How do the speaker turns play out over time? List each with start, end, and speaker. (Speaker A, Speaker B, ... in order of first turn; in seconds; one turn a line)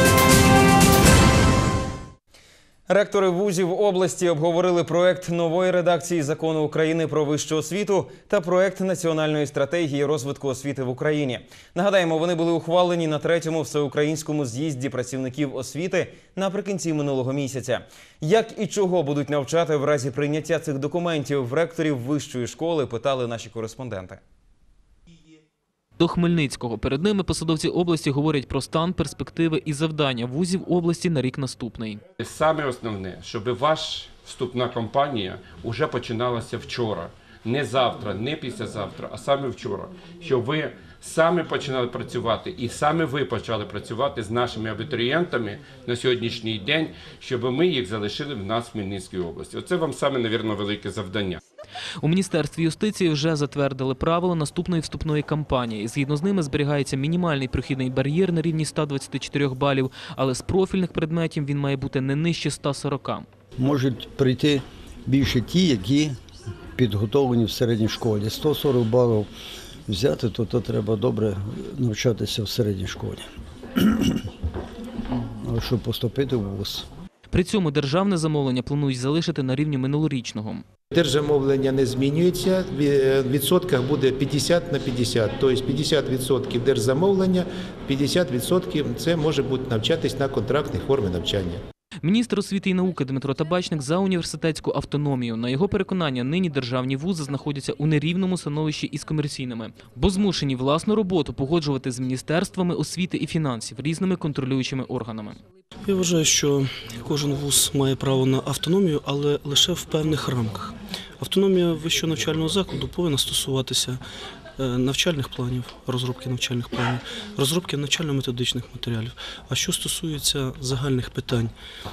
Speaker A: 2.9-24.2
Speaker B: 26.0-32.0
Speaker C: 32.2-51.4
Speaker B: 52.0-63.3
Speaker D: 63.6-66.2
Speaker D: 66.8-69.3
Speaker D: 69.9-73.3
Speaker D: 73.8-74.1
Speaker D: 75.1-76.9
Speaker B: 77.3-80.6
Speaker E: 80.9-91.6
Speaker B: 92.0-105.4
Speaker F: 105.8-114.0
Speaker F: 114.6-121.5